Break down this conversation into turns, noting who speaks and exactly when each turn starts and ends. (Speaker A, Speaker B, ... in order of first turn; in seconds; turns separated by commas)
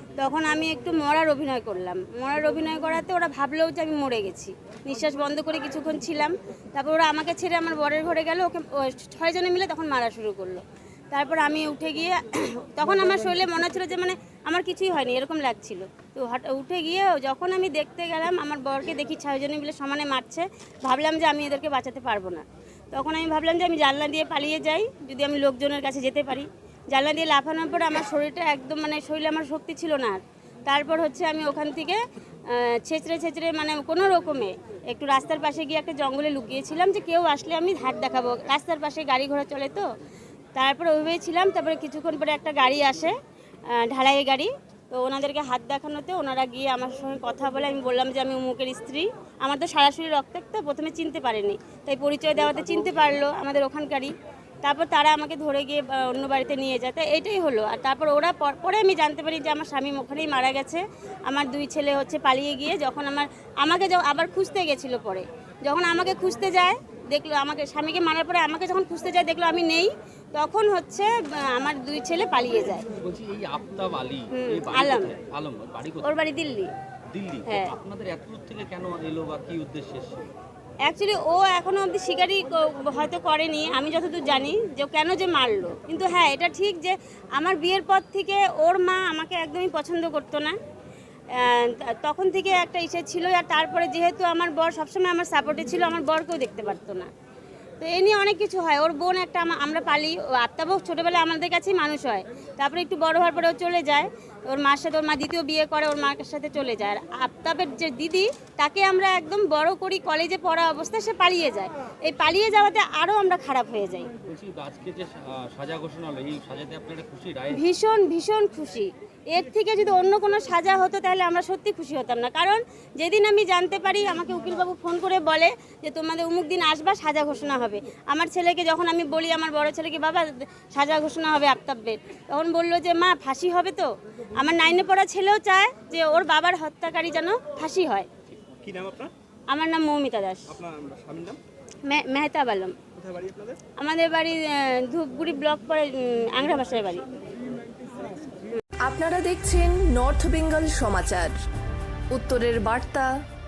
Speaker A: 0.2-39.9, Speaker A: 40.5-43.1, Speaker A: 43.7-54.1, Speaker A: 54.6-72.8, Speaker B: 73.0-76.2, Speaker A: 74.3-75.1, Speaker A: 76.0-76.7, Speaker B: 77.1-80.3, Speaker A: 80.9-90.5, Speaker A: 91.3-97.1, Speaker A: 97.8-114.1, Speaker B: 114.3-117.6, Speaker A: 117.5-138.1, Speaker C: 138.6-139.1, Speaker A: 139.5-140.6, Speaker C: 140.5-141.4, Speaker A: 141.9-142.7, Speaker C: 143.0-143.6, Speaker A: 143.8-147.1, Speaker D: 148.8-151.3, Speaker D: 152.1-153.1